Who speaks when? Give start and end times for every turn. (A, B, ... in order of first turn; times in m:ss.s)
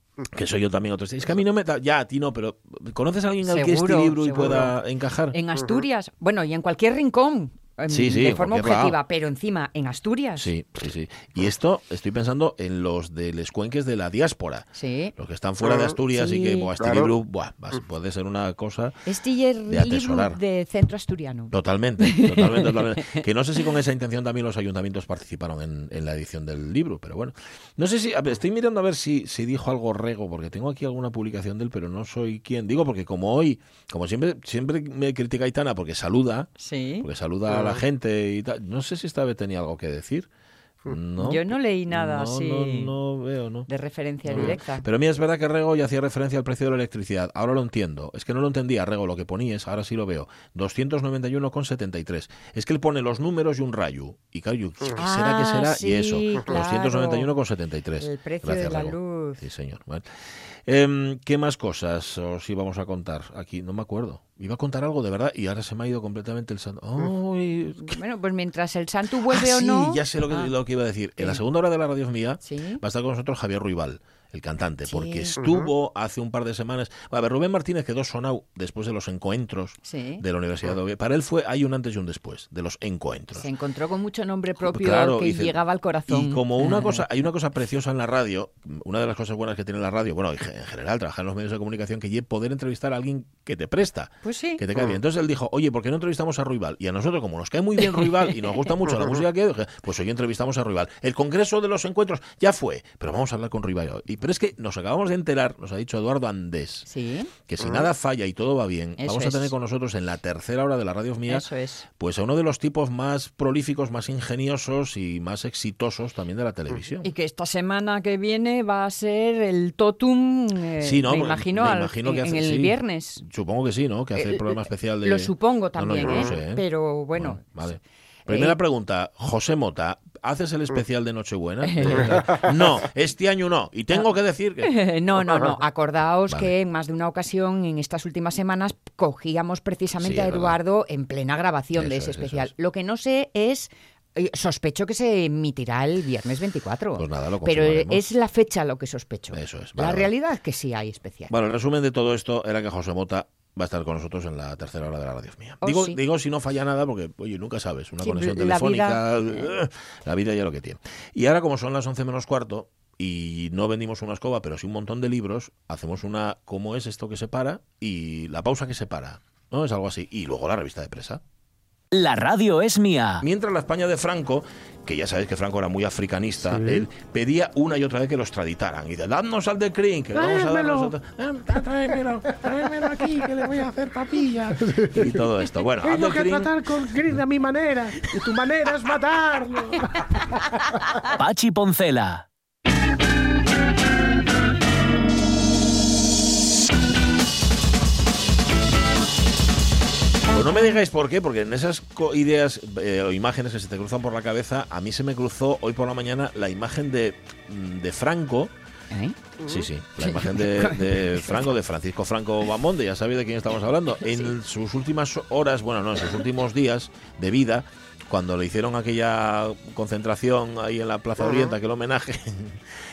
0:00.3-0:05.4 A
0:03.4-0:04.8 B
0:05.3-0:10.5 B
0:07.9-0:09.0 A
0:10.4-0:19.0 A
0:14.8-0:15.1 B
0:15.6-0:15.9 C
0:16.1-0:16.7 B
0:16.8-0:17.1 C
0:19.0-0:23.2 B
0:19.7-0:20.4 A
0:21.5-0:36.5 A
0:36.6-0:37.1 B
0:37.0-0:40.3 A
0:37.5-0:37.8 C
0:40.9-0:43.7 A
0:41.2-0:42.9 B
0:43.7-0:44.9 B
0:44.2-1:00.1 A
0:54.9-0:57.3 B
0:58.0-0:59.4 B
1:00.6-1:08.0 A
1:07.8-1:10.5 B
1:09.3-1:23.5 A
1:11.2-1:11.4 B
1:12.4-1:12.8 B
1:14.9-1:15.4 B
1:15.4-1:15.7 C
1:19.8-1:20.2 B
1:23.4-1:27.1 B
1:24.6-1:46.9 A
1:34.2-1:34.6 B
1:37.8-1:38.8 B
1:46.9-1:47.3 B
1:47.5-1:51.5 A
1:47.6-1:47.9 C
1:49.0-1:49.5 B
1:51.3-1:51.9 B
1:52.0-1:57.1 A
1:57.0-2:03.2 B
2:00.8-2:14.8 A
2:04.1-2:08.6 B
2:06.0-2:06.3 C
2:11.6-2:12.5 B
2:14.6-2:31.3 B
2:16.3-2:16.5 A
2:20.0-2:20.6 A
2:21.7-2:22.5 A
2:27.0-2:28.0 A
2:29.3-2:30.1 A
2:31.3-2:51.2 A
2:35.6-2:36.0 B
2:38.0-2:39.6 B
2:51.9-2:53.2 D
2:53.2-3:03.6 A
3:00.2-3:00.9 C
3:02.4-3:05.1 C
3:04.2-3:07.2 A
3:05.8-3:10.2 C
3:10.7-3:11.1 C
3:11.2-3:12.3 D
3:20.3-3:28.5 A
3:28.9-3:29.2 B
3:29.4-3:29.7 C
3:29.4-3:42.6 A
3:30.0-3:31.5 B
3:34.0-3:34.3 B
3:41.2-3:41.5 C